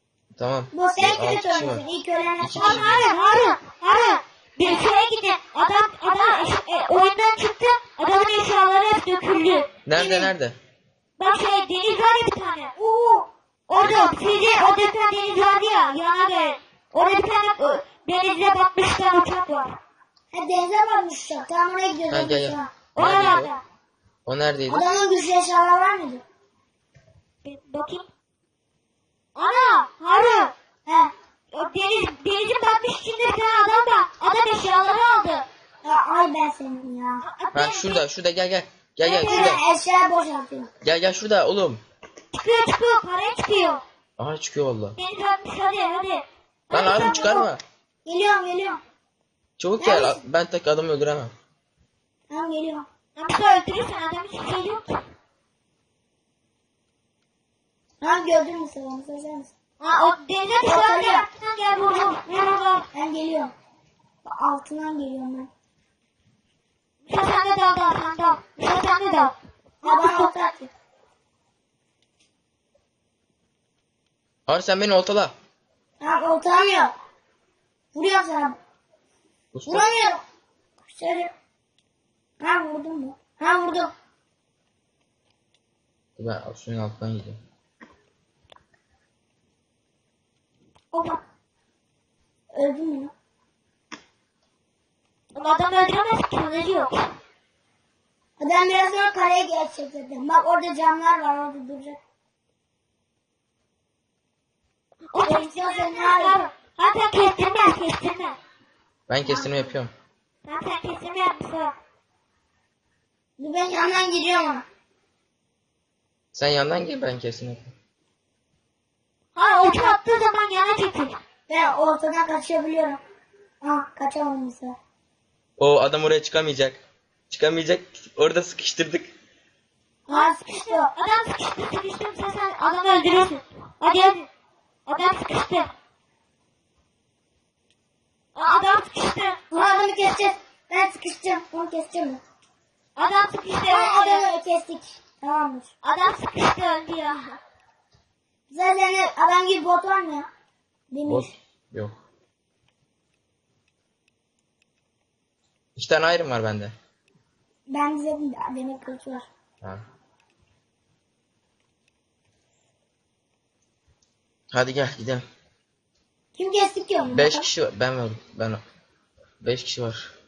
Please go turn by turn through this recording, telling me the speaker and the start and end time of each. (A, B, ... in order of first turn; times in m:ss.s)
0:00.4-0:01.8 A
0:00.7-0:02.9 B
0:02.4-0:03.0 A
0:02.6-0:10.3 C
0:09.9-0:10.6 A
0:11.2-0:12.8 C
0:12.8-0:13.3 B
0:13.7-0:19.8 C
0:20.3-0:22.7 B
0:22.1-0:23.5 A
0:22.9-0:23.6 C
0:24.3-0:24.9 A
0:24.7-0:26.2 B
0:27.4-0:28.1 C
0:29.4-0:30.5 C
0:30.9-0:31.1 B
0:31.5-0:35.5 C
0:35.8-0:37.2 B
0:37.2-0:38.0 C
0:37.6-0:39.6 A
0:39.0-0:39.6 C
0:39.3-0:40.7 B
0:40.8-0:41.8 A
0:42.3-0:43.8 C
0:44.2-0:45.0 A
0:45.0-0:47.4 C
0:46.7-0:47.6 A
0:46.9-0:47.5 B
0:48.0-0:48.8 B
0:49.6-0:51.3 A
0:49.8-0:50.2 B
0:52.3-0:52.9 B
0:53.2-0:55.0 C
0:58.0-0:59.5 B
0:59.8-1:02.9 C
1:00.6-1:01.3 B
1:02.9-1:03.5 B
1:04.2-1:05.5 B
1:07.1-1:10.3 C
1:09.8-1:10.7 B
1:14.5-1:15.3 A
1:16.0-1:16.9 B
1:17.9-1:18.6 B
1:19.5-1:19.9 A
1:19.7-1:20.2 B
1:20.9-1:21.3 B
1:22.4-1:23.9 B
1:26.2-1:27.4 A
1:30.9-1:31.2 C
1:32.5-1:33.1 B
1:35.3-1:37.1 C
1:38.4-1:42.0 B
1:45.1-1:48.4 C
1:45.2-1:46.4 B
1:49.1-1:49.9 A
1:49.2-1:49.7 B
1:50.4-1:51.8 C
1:53.4-1:54.6 B
1:56.3-1:57.7 A
1:59.4-2:01.2 C
2:01.5-2:03.0 B
2:03.6-2:04.8 B
2:05.6-2:09.1 A
2:10.1-2:10.9 B
2:10.1-2:14.3 C
2:14.9-2:15.7 C
2:18.4-2:19.4 C
2:19.5-2:22.2 B
2:23.0-2:24.2 C
2:23.7-2:25.7 B
2:25.8-2:27.4 C
2:28.5-2:30.3 B
2:30.9-2:31.3 B
2:31.1-2:32.0 A
2:35.8-2:36.7 A
2:37.7-2:39.3 B
2:44.5-2:45.2 A
2:46.4-2:47.5 B
2:47.1-2:48.6 A
2:49.4-2:50.1 A